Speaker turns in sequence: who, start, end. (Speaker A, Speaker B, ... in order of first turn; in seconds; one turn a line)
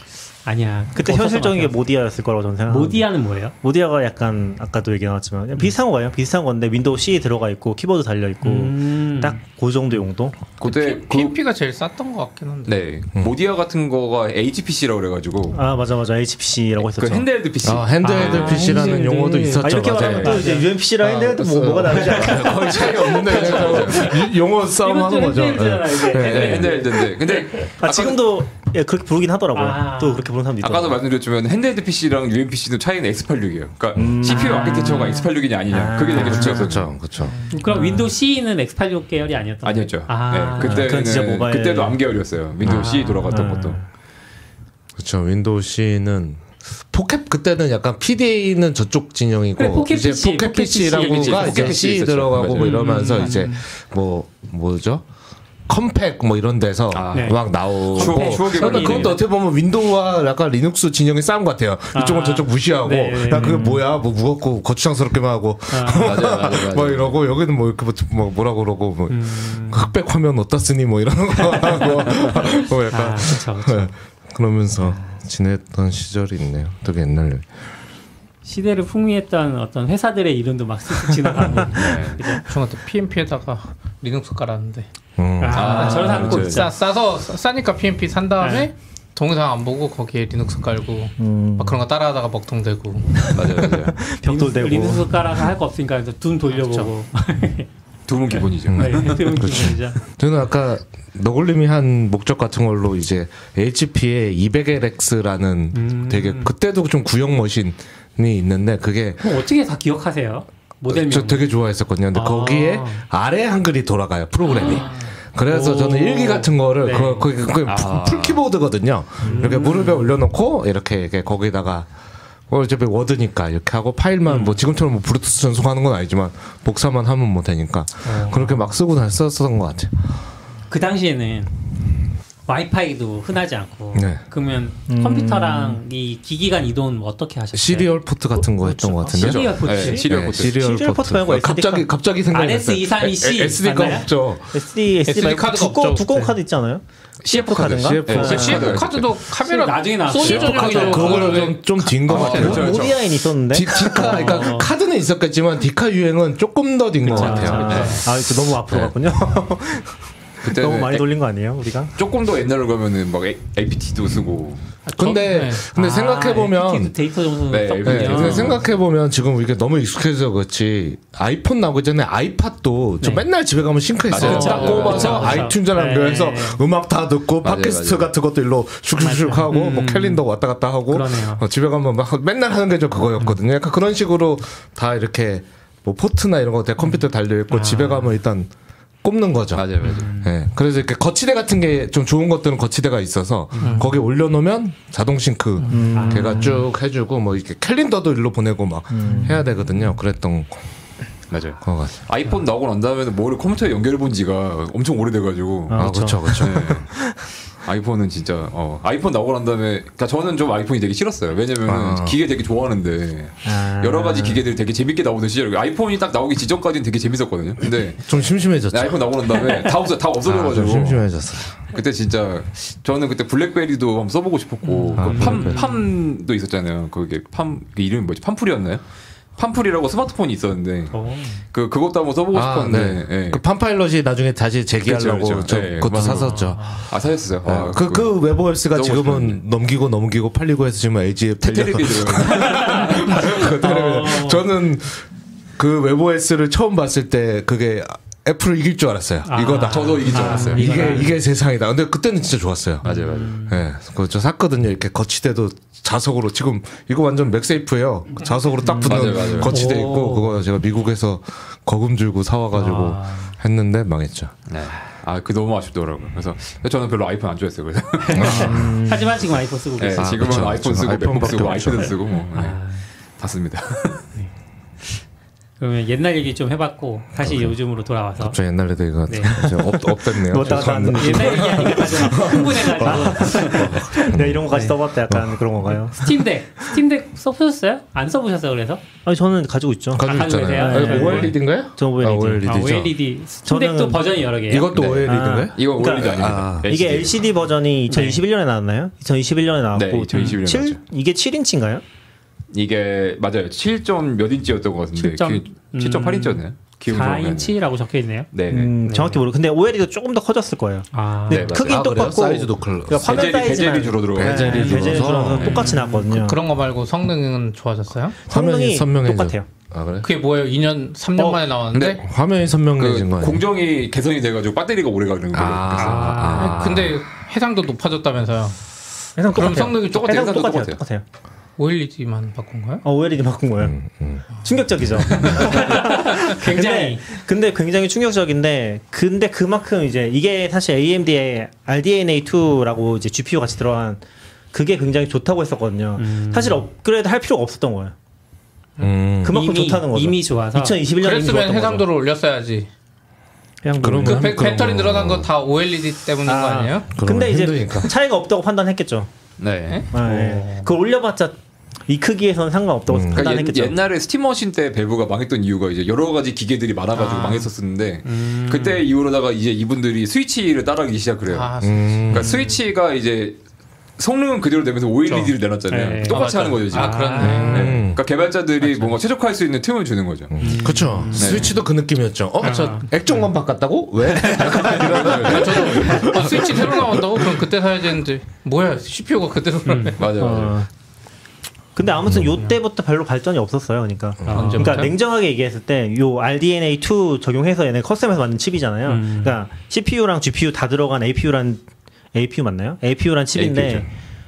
Speaker A: 0.4-1.8
Speaker B: 0.9-10.4
Speaker A: 2.7-3.5
Speaker A: 8.4-9.4
Speaker C: 10.6-11.3
Speaker D: 10.6-12.8
Speaker C: 12.7-15.6
Speaker B: 15.5-17.3
Speaker C: 16.8-18.7
Speaker E: 17.6-26.9
Speaker A: 18.0-20.7
Speaker B: 18.3-19.0
Speaker B: 19.6-24.1
Speaker C: 19.9-20.3
Speaker A: 22.0-24.2
Speaker C: 23.0-24.1
Speaker A: 24.8-27.1
Speaker C: 26.1-28.2
Speaker B: 27.7-31.0
Speaker A: 29.5-30.3
Speaker C: 30.6-36.9
Speaker B: 34.0-36.8
Speaker A: 34.2-35.3
Speaker E: 36.2-37.4
Speaker A: 37.5-41.0
Speaker B: 37.7-38.0
Speaker C: 39.6-43.8
Speaker B: 40.6-42.0
Speaker B: 42.6-43.9
Speaker A: 42.6-43.5
Speaker E: 45.0-55.0
Speaker A: 49.6-53.6
Speaker C: 51.0-52.8
Speaker E: 55.7-77.5
Speaker C: 56.9-59.2
Speaker A: 57.1-59.2
Speaker A: 61.9-63.8
Speaker A: 65.7-66.2
Speaker C: 66.0-67.2
Speaker A: 69.1-69.9
Speaker A: 71.3-73.9
Speaker A: 74.8-75.1
Speaker A: 78.4-82.5
Speaker C: 81.7-82.2
Speaker D: 82.4-84.9
Speaker E: 85.2-86.2
Speaker A: 85.4-86.7
Speaker C: 85.5-86.7
Speaker D: 85.7-93.3
Speaker B: 85.8-86.3
Speaker A: 88.4-88.7
Speaker B: 91.2-91.8
Speaker B: 93.3-95.1
Speaker C: 93.3-94.0
Speaker A: 94.2-97.7
Speaker C: 98.1-99.2
Speaker A: 98.3-100.0
Speaker E: 98.7-109.2
Speaker A: 105.7-106.5
Speaker A: 109.2-111.5
Speaker E: 110.9-121.9
Speaker A: 112.1-113.0
Speaker A: 114.4-117.3
Speaker C: 117.6-118.4
Speaker B: 119.2-119.5
Speaker A: 119.2-120.1
Speaker E: 122.5-129.9
Speaker A: 124.3-124.6
Speaker A: 128.0-128.7
Speaker A: 130.7-131.5
Speaker A: 132.5-140.1
Speaker E: 133.9-134.2
Speaker B: 134.9-135.8
Speaker E: 137.5-144.5
Speaker B: 138.6-139.2
Speaker C: 139.2-140.6
Speaker B: 140.3-141.9
Speaker A: 142.3-144.1
Speaker B: 144.5-148.7
Speaker D: 145.0-146.4
Speaker C: 147.2-149.1
Speaker E: 147.2-149.1
Speaker D: 148.2-152.6
Speaker A: 149.4-151.5
Speaker E: 150.2-153.0
Speaker C: 150.2-153.1
Speaker B: 152.2-154.5
Speaker E: 153.5-158.9
Speaker A: 153.7-154.7
Speaker A: 157.0-158.0
Speaker B: 157.1-159.9
Speaker C: 157.7-158.0
Speaker C: 160.4-161.1
Speaker B: 160.4-161.9
Speaker C: 161.9-164.7
Speaker A: 164.9-168.6
Speaker E: 164.9-166.9
Speaker D: 165.0-165.6
Speaker C: 167.5-168.6
Speaker E: 167.8-188.5
Speaker A: 173.0-173.2
Speaker C: 174.1-175.5
Speaker A: 174.1-176.6
Speaker C: 177.4-178.1
Speaker A: 179.0-180.2
Speaker A: 180.9-181.4
Speaker A: 186.8-188.1
Speaker E: 189.0-200.6
Speaker C: 189.5-190.1
Speaker A: 189.8-190.3
Speaker A: 193.5-193.9
Speaker D: 193.6-193.9
Speaker A: 195.7-196.7
Speaker B: 195.7-196.6
Speaker B: 198.9-199.5
Speaker A: 199.1-199.4
Speaker C: 201.3-206.9
Speaker E: 201.6-201.9
Speaker B: 205.7-206.7
Speaker E: 205.7-206.8
Speaker C: 207.6-218.1
Speaker E: 211.7-212.2
Speaker B: 213.4-214.4
Speaker E: 218.1-219.1
Speaker C: 218.7-221.0
Speaker E: 220.2-221.6
Speaker C: 221.6-228.8
Speaker A: 224.6-225.8
Speaker E: 225.0-225.7
Speaker C: 229.4-233.4
Speaker A: 230.9-231.4
Speaker E: 232.3-236.8
Speaker C: 234.8-239.4
Speaker A: 236.0-236.8
Speaker E: 237.4-245.0
Speaker C: 241.4-243.4
Speaker A: 242.5-244.4
Speaker E: 245.6-264.3
Speaker A: 249.2-251.2
Speaker C: 249.7-250.8
Speaker C: 252.8-253.4
Speaker A: 252.8-253.6
Speaker A: 258.2-258.9
Speaker C: 258.8-259.5
Speaker A: 259.4-260.4
Speaker A: 262.5-263.3
Speaker C: 264.5-268.6
Speaker A: 268.1-270.4
Speaker E: 268.1-268.8
Speaker B: 268.3-269.0
Speaker C: 269.8-272.6
Speaker E: 270.0-271.9
Speaker A: 272.3-272.8
Speaker C: 273.2-274.1
Speaker A: 275.6-278.4
Speaker E: 277.2-277.6
Speaker E: 278.2-285.8
Speaker A: 279.1-279.4
Speaker B: 279.3-286.2
Speaker A: 280.5-284.1
Speaker A: 286.0-288.8
Speaker B: 289.0-292.5
Speaker E: 289.9-292.9
Speaker A: 290.0-291.4
Speaker A: 292.4-294.7
Speaker B: 293.4-294.2
Speaker E: 294.5-296.7
Speaker C: 294.7-297.2
Speaker B: 295.0-301.8
Speaker A: 297.9-298.2
Speaker C: 299.7-300.8
Speaker A: 300.1-300.4
Speaker C: 302.5-307.6
Speaker A: 304.9-308.3
Speaker C: 308.3-308.7
Speaker B: 308.5-316.4
Speaker A: 308.8-309.2
Speaker A: 310.9-311.5
Speaker C: 311.3-311.9
Speaker E: 311.5-313.6
Speaker C: 313.0-315.6
Speaker E: 314.1-315.7
Speaker A: 314.5-316.1
Speaker D: 316.1-318.2
Speaker B: 318.3-319.4
Speaker E: 318.3-320.1
Speaker D: 320.0-322.0
Speaker C: 321.7-322.0
Speaker E: 321.9-323.4
Speaker C: 322.8-326.3
Speaker E: 325.3-327.0
Speaker A: 325.7-326.6
Speaker D: 326.3-328.6
Speaker B: 329.2-331.0
Speaker D: 329.3-330.0
Speaker C: 329.8-330.8
Speaker D: 331.6-332.8
Speaker B: 332.8-333.8
Speaker E: 333.6-334.2
Speaker B: 334.4-347.9
Speaker A: 335.1-337.0
Speaker A: 346.0-346.6
Speaker E: 348.8-349.4
Speaker B: 349.2-351.9
Speaker A: 349.3-350.8
Speaker D: 350.9-352.7
Speaker B: 353.6-354.7
Speaker E: 353.8-355.3
Speaker D: 354.0-356.9
Speaker B: 356.2-359.1
Speaker E: 356.9-357.9
Speaker C: 359.4-359.9
Speaker D: 359.7-360.4
Speaker B: 359.9-363.8
Speaker E: 362.9-363.3
Speaker C: 363.1-371.5
Speaker A: 367.1-367.4
Speaker A: 368.0-368.9
Speaker D: 371.3-372.5
Speaker E: 371.6-372.4
Speaker C: 372.1-373.4
Speaker C: 374.0-380.4
Speaker A: 375.1-377.8
Speaker D: 376.1-377.7
Speaker E: 377.2-378.0
Speaker E: 380.3-387.3
Speaker A: 380.4-381.5
Speaker C: 381.1-381.5
Speaker A: 382.4-383.2
Speaker C: 384.2-385.8
Speaker D: 385.0-390.1
Speaker A: 389.6-389.9
Speaker C: 390.0-390.6
Speaker B: 390.1-390.7
Speaker B: 391.8-403.9
Speaker E: 394.2-394.8
Speaker A: 394.3-394.9
Speaker D: 394.3-394.9
Speaker A: 398.9-399.4
Speaker C: 403.3-403.9